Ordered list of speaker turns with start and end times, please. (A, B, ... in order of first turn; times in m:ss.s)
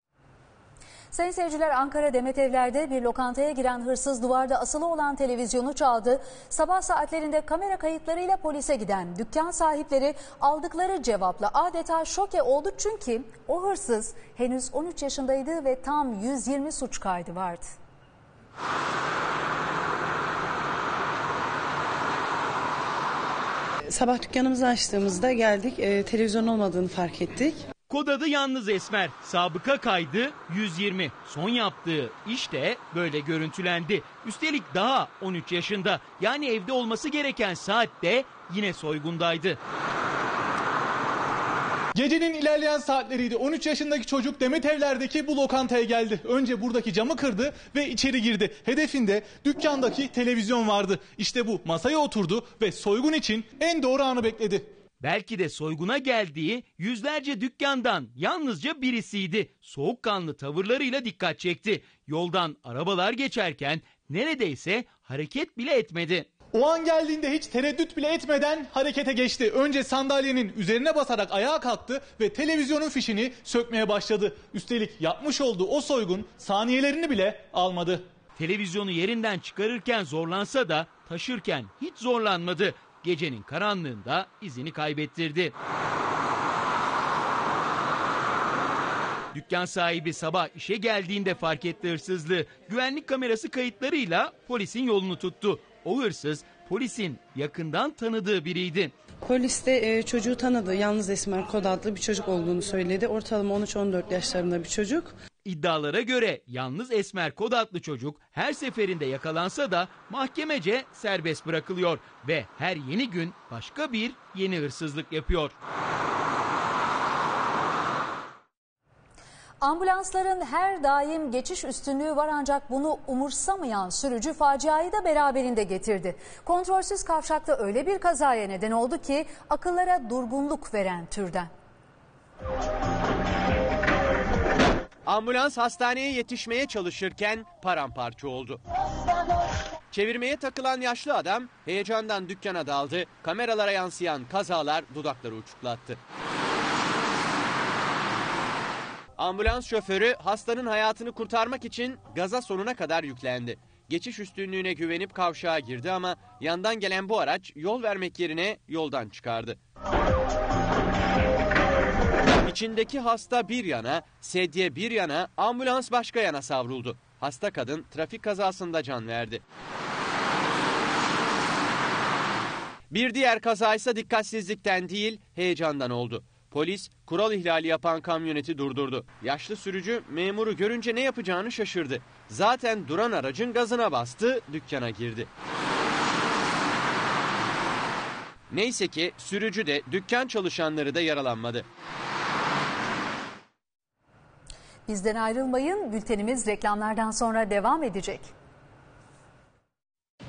0:01.1-0:17.8 A
0:23.9-0:27.7 B
0:27.9-0:39.6 C
0:42.0-0:54.7 D
0:55.0-1:06.3 C
1:06.5-1:18.0 D
1:18.4-1:25.5 C
1:29.3-1:38.9 C
1:39.2-1:45.2 B
1:45.4-1:55.6 C
1:59.6-2:11.5 A
2:15.1-2:18.6 E
2:19.9-2:26.0 E
2:29.2-2:39.6 E
2:42.4-2:49.4 E
2:52.9-3:05.3 E
3:08.5-3:11.6 E
3:14.9-3:18.3 A